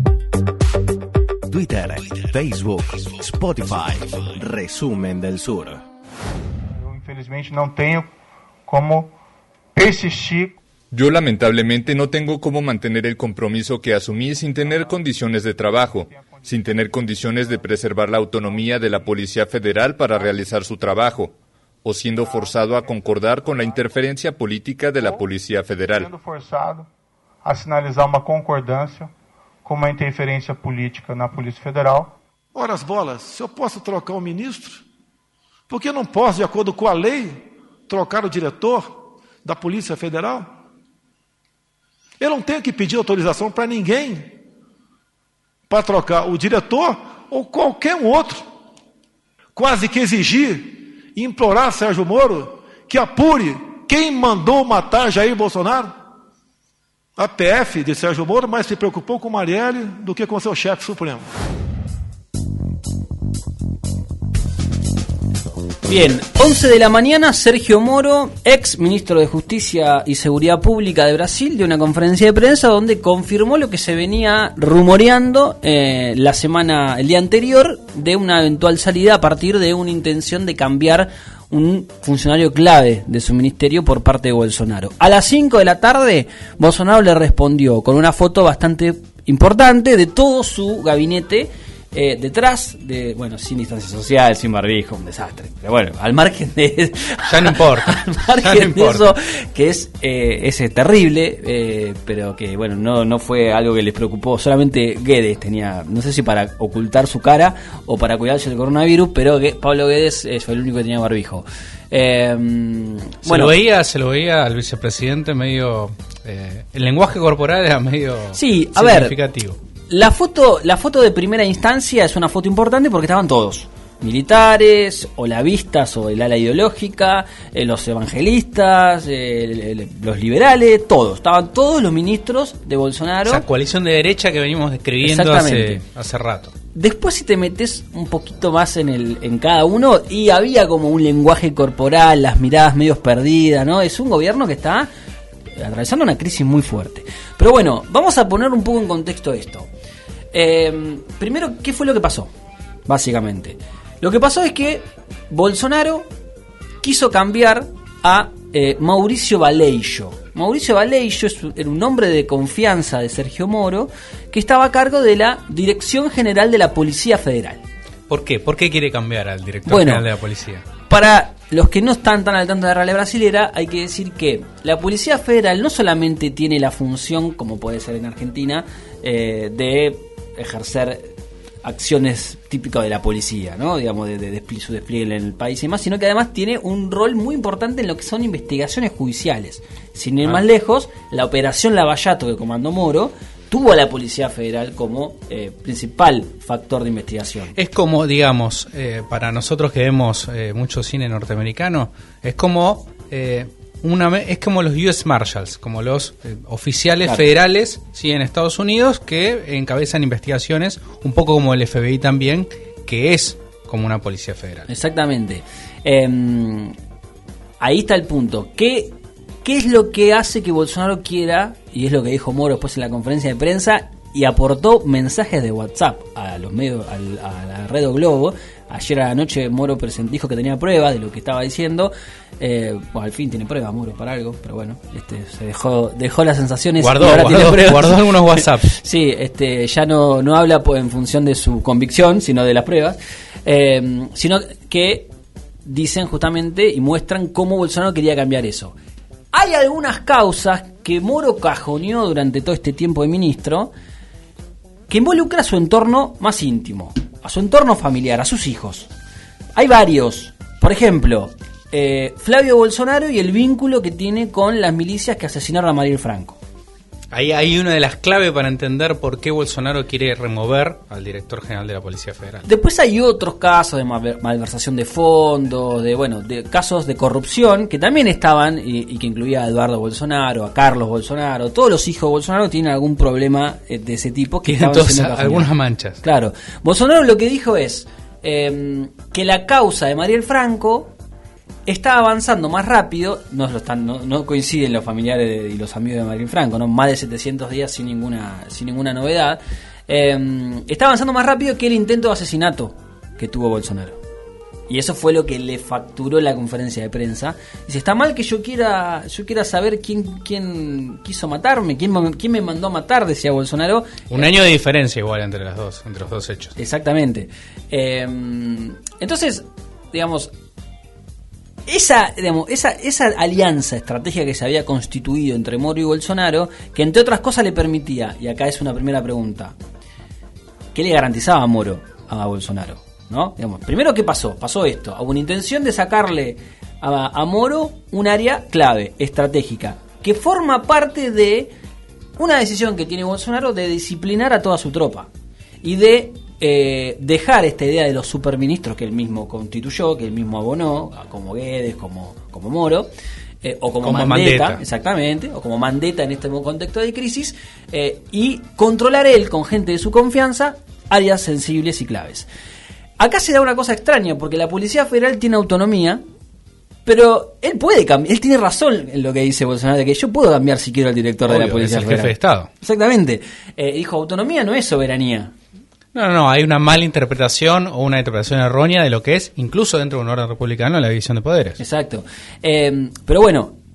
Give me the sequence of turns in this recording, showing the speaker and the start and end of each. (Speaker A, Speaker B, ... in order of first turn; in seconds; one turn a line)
Speaker A: 1.5-5.8
Speaker B: 6.7-8.1
Speaker B: 8.7-9.2
Speaker B: 9.8-10.6
Speaker C: 10.9-26.1
Speaker B: 16.1-16.4
Speaker B: 26.0-26.9
Speaker B: 27.4-29.1
Speaker B: 29.6-32.2
Speaker D: 32.5-34.8
Speaker D: 35.7-40.5
Speaker D: 42.2-44.3
Speaker D: 45.7-48.4
Speaker D: 49.5-55.9
Speaker D: 57.2-61.2
Speaker E: 65.8-113.5
Speaker F: 97.3-99.2
Speaker F: 113.3-119.6
Speaker E: 118.3-119.2
Speaker E: 119.9-133.4
Speaker F: 133.3-136.5
Speaker E: 135.0-135.8
Speaker E: 136.7-144.9
Speaker E: 145.6-149.7
Speaker E: 150.3-152.3
Speaker E: 152.9-156.1
Speaker E: 156.8-167.6
Speaker F: 168.1-170.7
Speaker E: 169.7-170.1
Speaker E: 170.8-181.1
Speaker E: 181.6-197.6
Speaker F: 197.6-214.7
Speaker E: 214.7-216.8
Speaker E: 217.6-245.1
Speaker F: 236.8-238.8
Speaker E: 245.7-248.8
Speaker E: 249.3-253.7
Speaker E: 254.9-258.9
Speaker E: 259.6-266.4
Speaker F: 267.1-272.5
Speaker E: 272.4-290.9
Speaker F: 284.4-286.0
Speaker E: 291.7-304.0
Speaker E: 304.7-314.3
Speaker F: 314.1-316.5
Speaker E: 316.6-320.3
Speaker E: 321.7-329.6
Speaker E: 330.7-341.5
Speaker E: 342.2-345.1
Speaker E: 345.6-352.9
Speaker E: 353.4-362.3
Speaker F: 353.8-354.6
Speaker E: 363.0-366.0
Speaker E: 366.9-375.3
Speaker F: 371.3-372.5
Speaker F: 375.9-381.6
Speaker E: 381.6-383.6